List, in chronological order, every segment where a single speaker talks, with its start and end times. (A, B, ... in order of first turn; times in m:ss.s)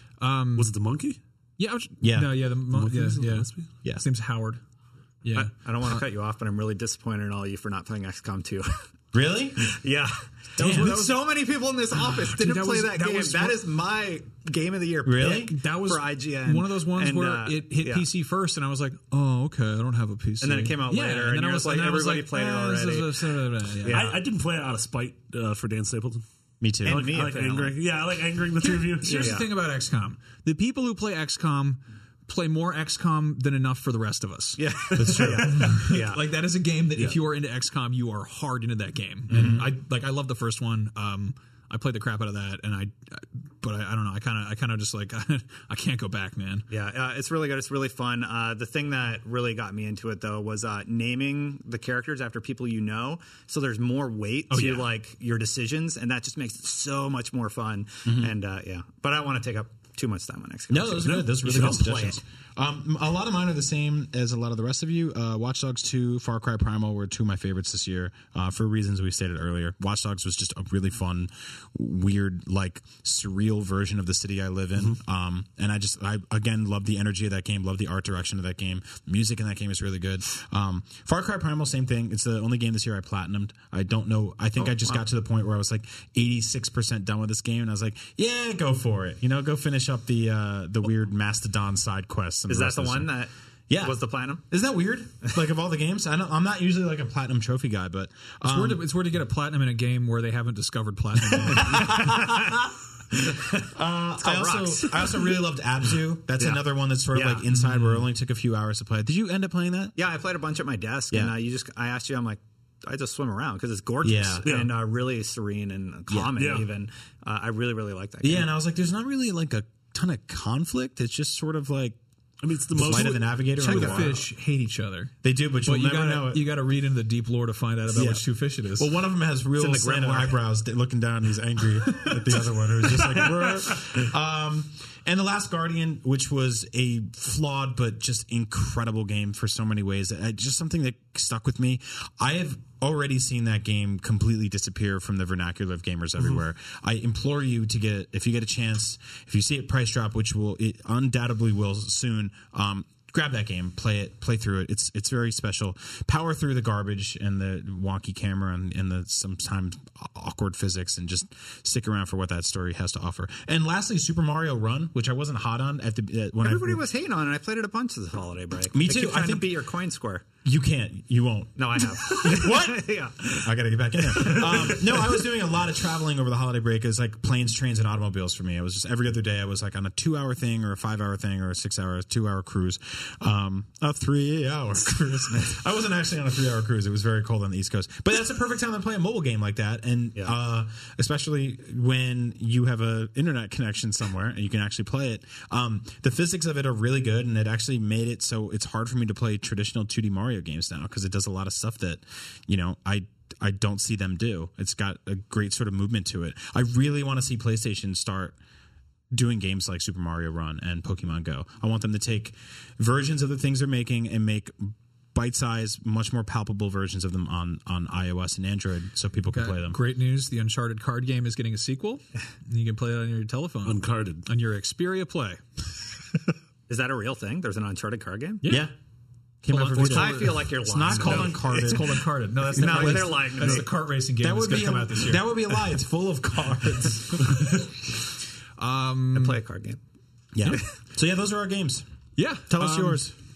0:00.2-0:00.7 A
0:00.6-0:01.2 B
0:01.6-0:04.6 A
0:02.0-0:02.5 C
0:02.7-0:03.7 B
0:05.2-0:06.0 A
0:05.4-0:08.7 D
0:09.1-0:09.8 C
0:09.6-0:18.1 D
0:10.6-0:11.1 C
0:10.6-0:11.1 A
0:12.0-0:13.6 A
0:15.0-0:15.6 C
0:15.2-0:24.1 A
0:20.4-0:24.2 D
0:23.9-0:26.2 B
0:26.6-0:27.3 C
0:26.8-0:29.4 B
0:26.8-0:27.8 D
0:28.6-0:34.6 A
0:29.1-0:29.5 D
0:34.6-0:36.2 D
0:34.9-0:35.8 C
0:35.4-0:46.7 A
0:39.3-0:39.7 C
0:46.7-1:02.2 D
0:54.5-0:54.9 A
0:58.1-0:58.3 C
1:00.7-1:33.1 C
1:01.0-1:01.9 B
1:24.6-1:25.0 D
1:32.5-1:34.4 D
1:33.7-1:38.9 C
1:38.4-1:42.0 A
1:41.5-1:42.6 C
1:41.6-1:45.4 D
1:43.7-1:50.0 C
1:47.1-1:47.5 D
1:47.7-1:48.0 A
1:50.0-1:58.5 D
1:54.0-1:54.5 C
1:54.4-1:54.7 B
1:56.4-1:56.7 B
1:58.2-2:02.0 C
2:02.4-2:03.5 B
2:02.7-2:04.3 C
2:03.6-2:08.9 A
2:05.2-2:06.6 C
2:07.9-2:46.8 C
2:09.6-2:10.4 D
2:46.4-2:50.3 D
2:48.7-2:49.6 C
2:50.4-3:28.4 C
2:51.6-2:55.0 D
3:29.1-3:39.8 C
3:39.3-3:45.4 A
3:43.6-3:44.2 B
3:46.7-3:48.6 D
3:48.4-3:48.7 A
3:48.5-3:48.7 C
3:49.4-3:53.7 C
3:49.5-3:55.4 A
3:49.5-3:51.7 D
3:52.5-3:53.7 D
3:54.2-3:57.6 C
3:58.6-3:59.4 A
3:59.1-3:59.8 D
4:00.3-4:01.9 C
4:02.2-4:03.1 A
4:02.5-4:03.2 C